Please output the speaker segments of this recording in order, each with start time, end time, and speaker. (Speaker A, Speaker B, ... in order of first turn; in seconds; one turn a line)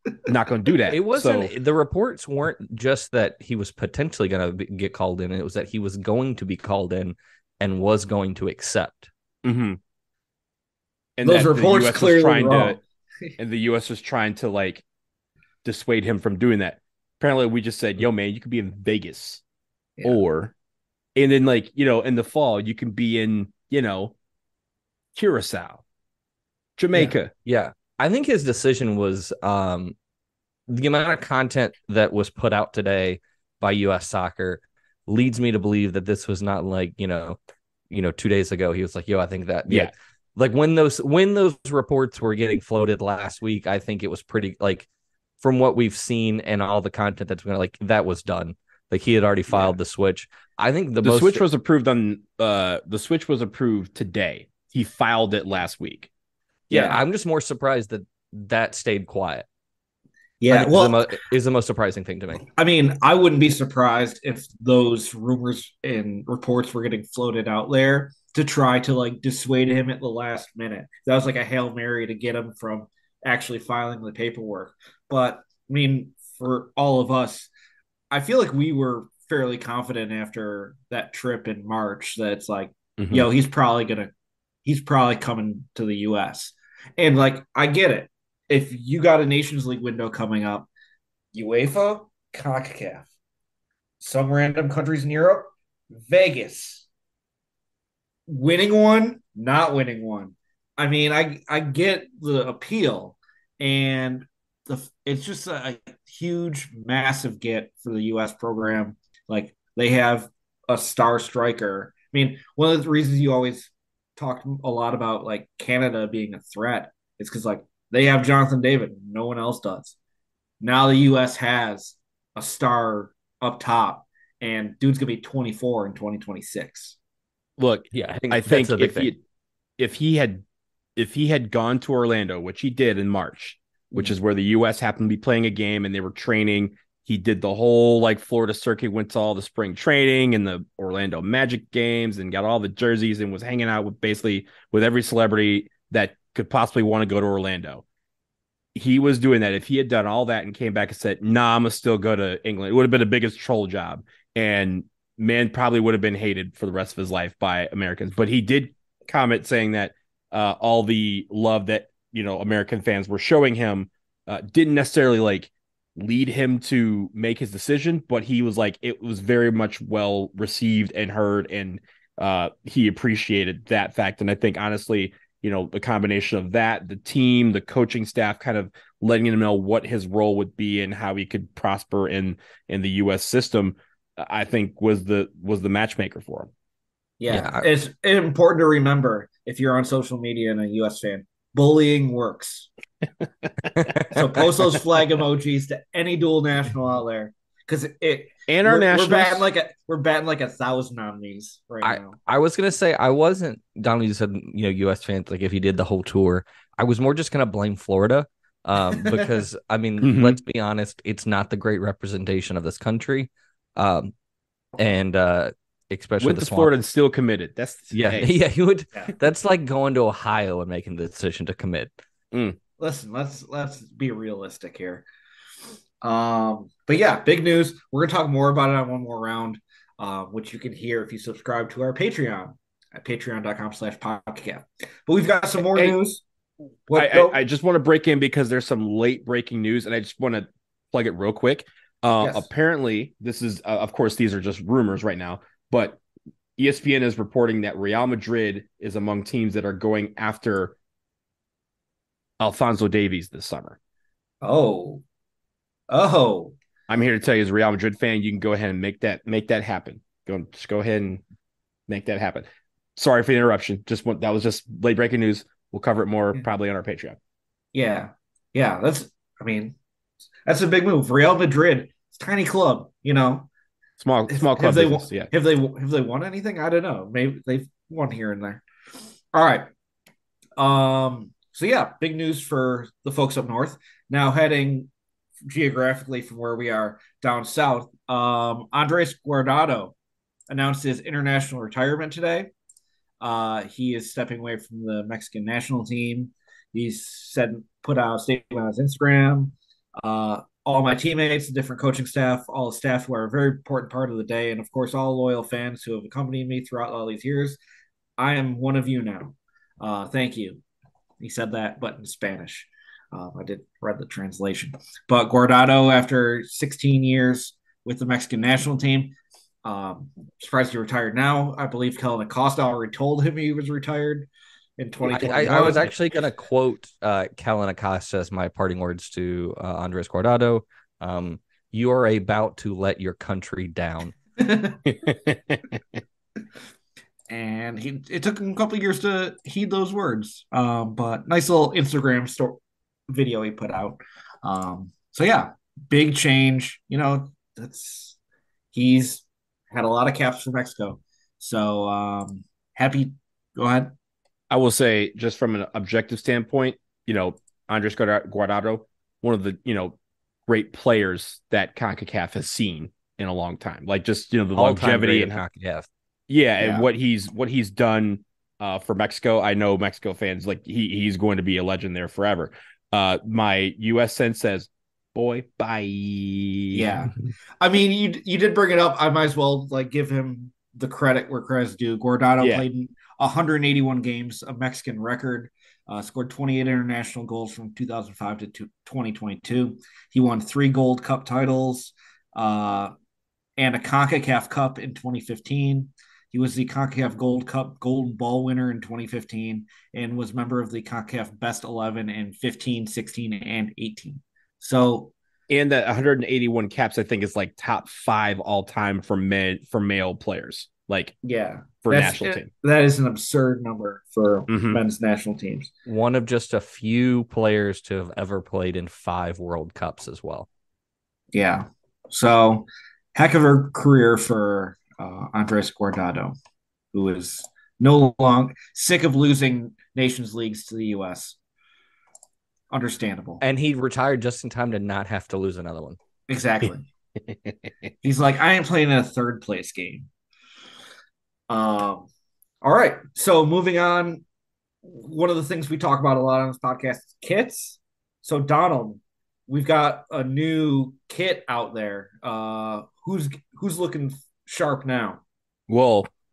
Speaker A: 0.2-1.5
Speaker B: 0.9-9.1
Speaker A: 9.4-9.8
Speaker A: 11.2-12.8
Speaker C: 11.2-13.4
Speaker A: 13.4-14.8
Speaker A: 15.6-19.4
Speaker A: 20.0-20.5
Speaker A: 21.1-24.1
Speaker A: 25.1-25.8
Speaker A: 26.8-27.3
Speaker B: 27.4-29.9
Speaker B: 30.7-37.4
Speaker B: 37.9-44.9
Speaker B: 45.4-51.4
Speaker A: 51.0-56.1
Speaker B: 56.7-59.5
Speaker C: 56.7-57.0
Speaker C: 60.4-61.1
Speaker B: 60.5-62.4
Speaker C: 62.4-77.5
Speaker C: 78.1-84.1
Speaker A: 83.0-83.3
Speaker C: 84.6-90.7
Speaker C: 91.3-93.1
Speaker C: 94.0-96.9
Speaker C: 98.3-119.9
Speaker C: 120.6-127.0
Speaker A: 127.6-129.2
Speaker B: 127.9-129.1
Speaker A: 129.8-130.4
Speaker A: 130.9-147.8
Speaker A: 148.7-186.5
Speaker C: 187.2-192.7
Speaker B: 187.3-187.7
Speaker B: 193.7-194.2
Speaker C: 194.1-202.2
Speaker A: 198.5-199.4
Speaker B: 201.8-214.1
Speaker A: 210.0-210.4
Speaker B: 214.8-216.7
Speaker A: 216.2-218.3
Speaker B: 217.9-222.0
Speaker A: 222.3-222.6
Speaker C: 222.8-225.0
Speaker C: 226.0-236.2
Speaker C: 236.9-237.4
Speaker A: 236.9-246.0
Speaker C: 242.2-242.5
Speaker A: 246.6-250.8
Speaker A: 252.4-253.8
Speaker C: 254.4-255.0
Speaker C: 255.9-256.5
Speaker A: 256.9-261.2
Speaker A: 261.9-267.2
Speaker C: 267.7-269.7
Speaker C: 270.4-273.5
Speaker A: 274.0-275.3
Speaker C: 274.3-278.6
Speaker C: 279.3-279.7
Speaker C: 280.6-284.9
Speaker C: 285.4-289.9
Speaker C: 290.5-292.5
Speaker C: 293.2-307.6
Speaker C: 308.2-310.6
Speaker C: 311.2-325.9
Speaker B: 325.0-334.1
Speaker C: 334.4-334.8
Speaker A: 335.0-335.6
Speaker C: 337.3-348.2
Speaker C: 348.7-353.9
Speaker A: 354.5-359.9
Speaker A: 360.5-365.4
Speaker B: 364.6-365.9
Speaker A: 366.3-377.0
Speaker C: 366.6-366.9
Speaker C: 376.7-392.9
Speaker A: 382.4-382.6
Speaker C: 393.6-405.1
Speaker A: 405.5-411.1
Speaker C: 411.2-415.7
Speaker A: 411.8-412.5
Speaker A: 414.5-414.8
Speaker B: 415.9-420.5
Speaker C: 421.3-426.4
Speaker C: 426.9-431.4
Speaker C: 432.7-433.4
Speaker B: 433.4-436.0
Speaker C: 436.3-436.9
Speaker A: 437.3-437.6
Speaker C: 438.0-440.1
Speaker C: 441.5-442.1
Speaker C: 442.6-444.2
Speaker C: 444.8-455.2
Speaker A: 455.7-456.1